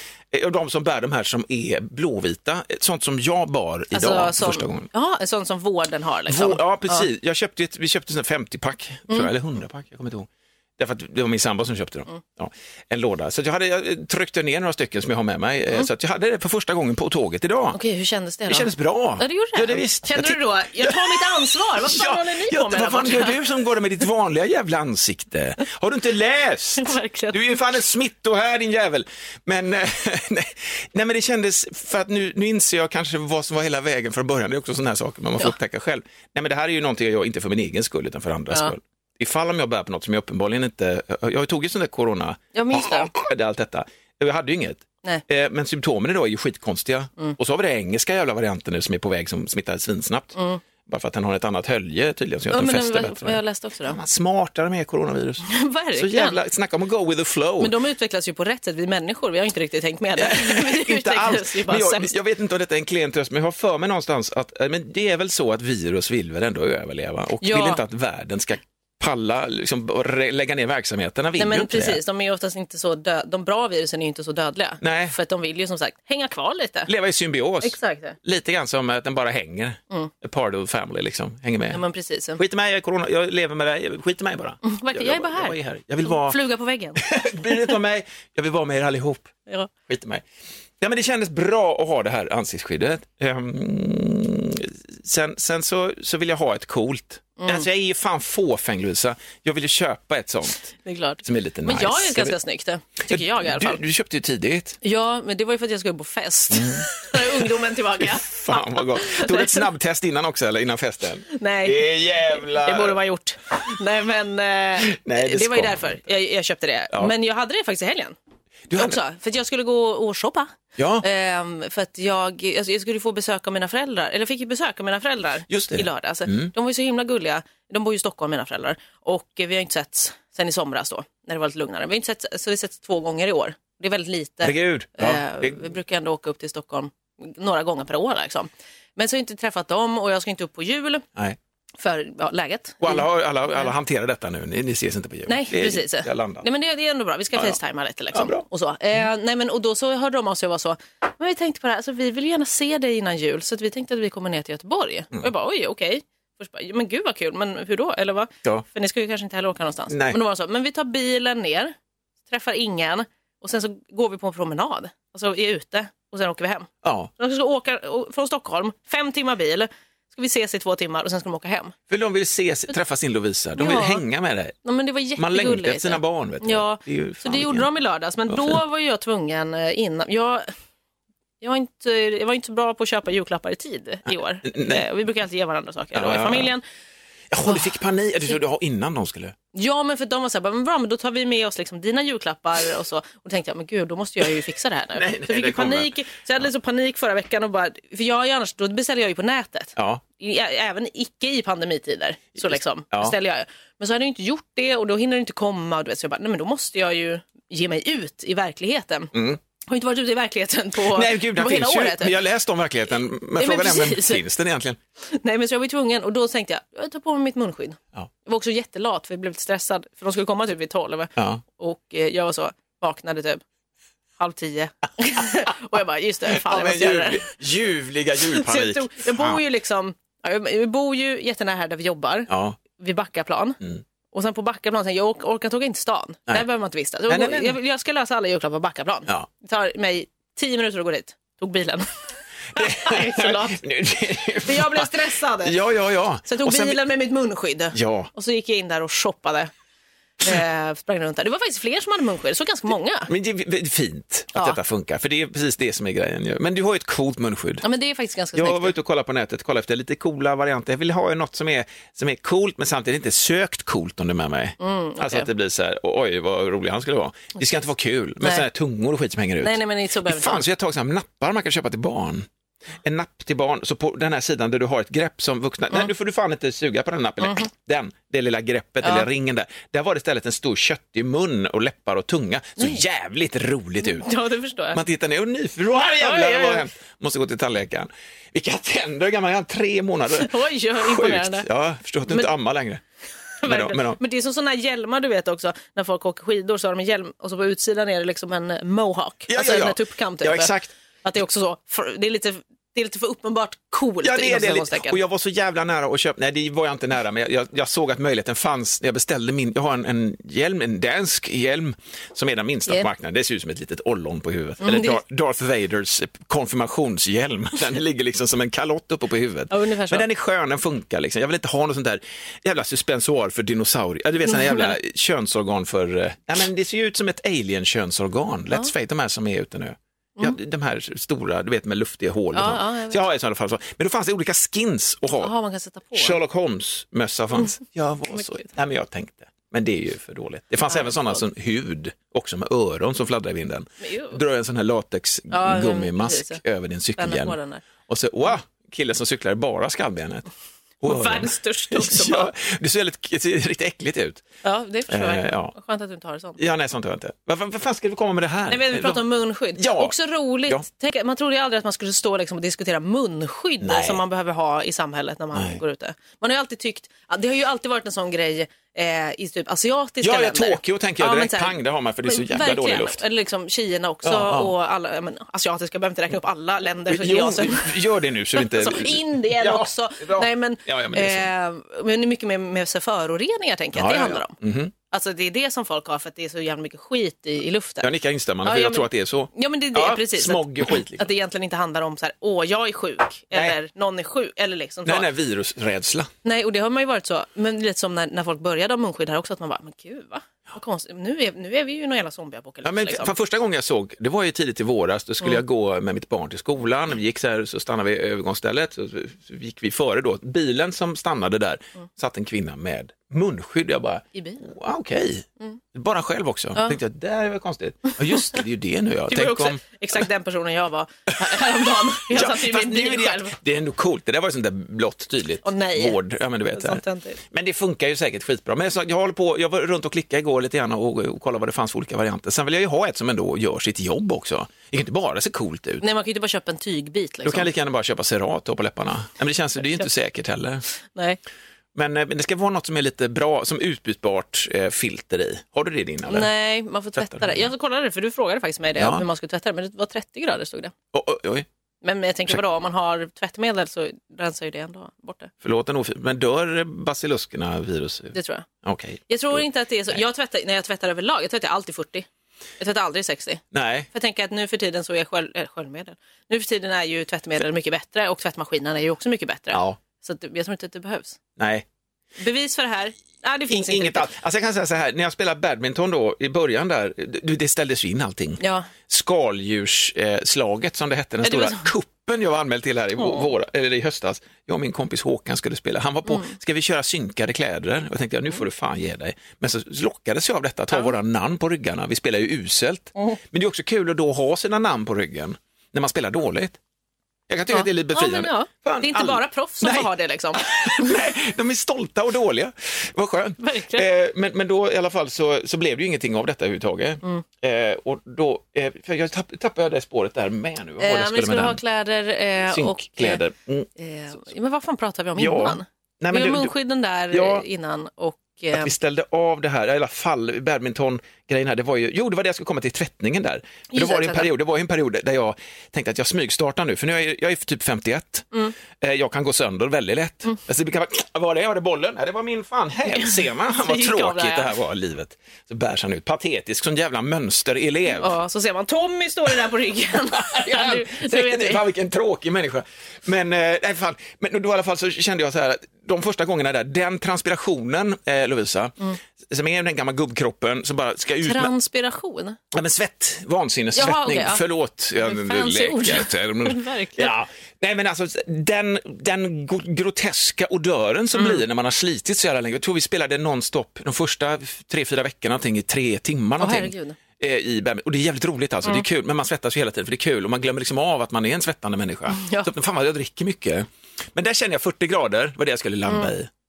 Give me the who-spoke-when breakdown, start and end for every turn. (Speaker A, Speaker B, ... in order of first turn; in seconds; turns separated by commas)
Speaker A: 0.3-4.9, Speaker B: 3.9-7.1, Speaker A: 6.3-17.8, Speaker B: 17.7-18.7, Speaker A: 18.5-57.8, Speaker B: 19.2-23.4, Speaker B: 26.8-27.6, Speaker B: 42.5-43.1, Speaker B: 50.4-50.6, Speaker B: 52.5-54.0, Speaker B: 55.5-56.4, Speaker B: 57.6-62.1, Speaker A: 60.2-72.0, Speaker B: 67.4-67.8, Speaker B: 71.4-76.9, Speaker A: 74.8-75.2, Speaker A: 76.9-81.8, Speaker B: 77.6-78.2, Speaker B: 81.7-82.4, Speaker A: 82.4-86.4, Speaker B: 84.6-87.0, Speaker A: 87.0-89.3, Speaker A: 89.9-90.2, Speaker A: 90.8-102.4, Speaker B: 97.4-97.7, Speaker B: 100.8-103.8, Speaker A: 103.1-104.8, Speaker B: 104.8-109.7, Speaker A: 106.5-106.8, Speaker A: 108.0-113.0, Speaker B: 111.3-118.2, Speaker A: 114.8-116.0, Speaker A: 118.7-119.0, Speaker B: 118.7-141.1, Speaker A: 120.8-121.0, Speaker A: 125.5-126.5, Speaker A: 134.4-135.6, Speaker B: 141.8-143.7, Speaker A: 142.8-146.5, Speaker B: 145.3-161.8, Speaker A: 148.1-148.4, Speaker A: 159.9-160.2, Speaker B: 162.3-171.7, Speaker A: 166.8-167.1, Speaker A: 171.9-174.6, Speaker B: 173.6-174.0, Speaker B: 174.7-180.5, Speaker A: 175.2-177.7, Speaker A: 178.3-178.6, Speaker B: 181.4-186.6, Speaker A: 184.1-184.8, Speaker A: 185.9-186.5, Speaker A: 187.3-189.3, Speaker B: 189.5-209.1, Speaker A: 194.9-196.0, Speaker A: 199.8-200.0, Speaker A: 202.5-203.2, Speaker A: 209.1-209.4, Speaker B: 209.7-212.2, Speaker A: 210.9-214.8, Speaker B: 213.4-214.2, Speaker B: 215.1-223.4, Speaker A: 221.2-221.4, Speaker B: 224.2-227.3, Speaker A: 226.3-229.4, Speaker B: 228.3-233.6, Speaker A: 232.3-232.6, Speaker B: 234.1-241.9, Speaker A: 237.1-237.6, Speaker B: 242.5-243.6, Speaker A: 242.6-246.8, Speaker B: 244.4-245.6, Speaker B: 246.3-249.5, Speaker A: 247.7-248.1, Speaker B: 250.2-253.1, Speaker A: 253.1-257.6, Speaker B: 257.6-258.7, Speaker A: 258.4-272.3, Speaker B: 264.6-265.3, Speaker B: 268.2-268.5, Speaker B: 269.4-270.4, Speaker A: 272.8-284.1, Speaker B: 277.2-277.5, Speaker B: 278.8-279.1, Speaker B: 283.8-284.8, Speaker A: 284.7-292.8, Speaker B: 286.0-286.6, Speaker B: 290.2-291.5, Speaker B: 293.4-300.5, Speaker A: 293.4-294.0, Speaker A: 299.3-300.7, Speaker B: 301.0-305.0, Speaker A: 304.0-335.3, Speaker B: 314.6-315.0, Speaker B: 319.5-320.1, Speaker B: 324.3-324.7, Speaker B: 332.4-333.0, Speaker B: 335.2-336.2, Speaker A: 335.9-350.3, Speaker B: 338.1-338.5, Speaker B: 340.7-341.2, Speaker B: 343.8-344.2, Speaker B: 345.3-346.4, Speaker B: 347.0-347.6, Speaker A: 350.8-354.2, Speaker B: 350.8-352.3, Speaker B: 354.4-356.4, Speaker A: 354.9-355.5, Speaker A: 356.4-359.9, Speaker B: 358.5-377.7, Speaker A: 363.6-364.0, Speaker A: 365.3-365.6, Speaker A: 370.0-373.0, Speaker A: 374.1-374.5, Speaker A: 376.9-381.3, Speaker B: 378.4-384.4, Speaker A: 383.8-384.7, Speaker B: 384.9-387.9, Speaker A: 387.8-391.1, Speaker B: 388.4-395.1, Speaker A: 394.9-396.1, Speaker B: 396.2-403.1, Speaker A: 402.6-419.8, Speaker B: 414.1-414.5, Speaker B: 419.1-423.4, Speaker A: 422.1-435.8, Speaker B: 425.4-426.0, Speaker B: 426.5-427.2, Speaker B: 435.8-437.5, Speaker A: 437.2-440.7, Speaker B: 439.6-439.9, Speaker B: 440.8-441.2, Speaker A: 441.8-446.3, Speaker B: 446.1-450.7, Speaker A: 447.0-447.4, Speaker A: 448.8-449.1, Speaker A: 450.9-451.5, Speaker B: 451.8-455.3, Speaker A: 455.4-460.0, Speaker B: 458.1-458.5, Speaker B: 459.1-462.1, Speaker B: 462.6-463.4, Speaker A: 463.5-463.9, Speaker B: 463.9-471.2, Speaker A: 469.5-469.8, Speaker A: 471.4-471.6, Speaker B: 472.2-474.1, Speaker A: 473.5-496.6, Speaker B: 478.4-478.7, Speaker B: 481.2-481.7, Speaker B: 483.0-483.3, Speaker B: 486.1-486.3, Speaker A: 497.3-511.6, Speaker B: 497.5-500.9, Speaker B: 503.4-503.9, Speaker B: 510.8-513.2, Speaker A: 512.5-513.7, Speaker B: 513.8-518.7, Speaker A: 515.2-516.5, Speaker A: 517.1-517.4, Speaker A: 518.5-538.1, Speaker B: 523.7-524.3, Speaker B: 532.9-534.5, Speaker B: 538.0-541.6, Speaker A: 540.1-548.8, Speaker A: 549.3-551.5, Speaker B: 551.2-552.4, Speaker A: 552.5-576.3, Speaker B: 553.8-554.4, Speaker B: 555.0-557.1, Speaker B: 561.1-561.4, Speaker B: 566.4-567.0, Speaker B: 572.2-572.5, Speaker B: 575.9-576.1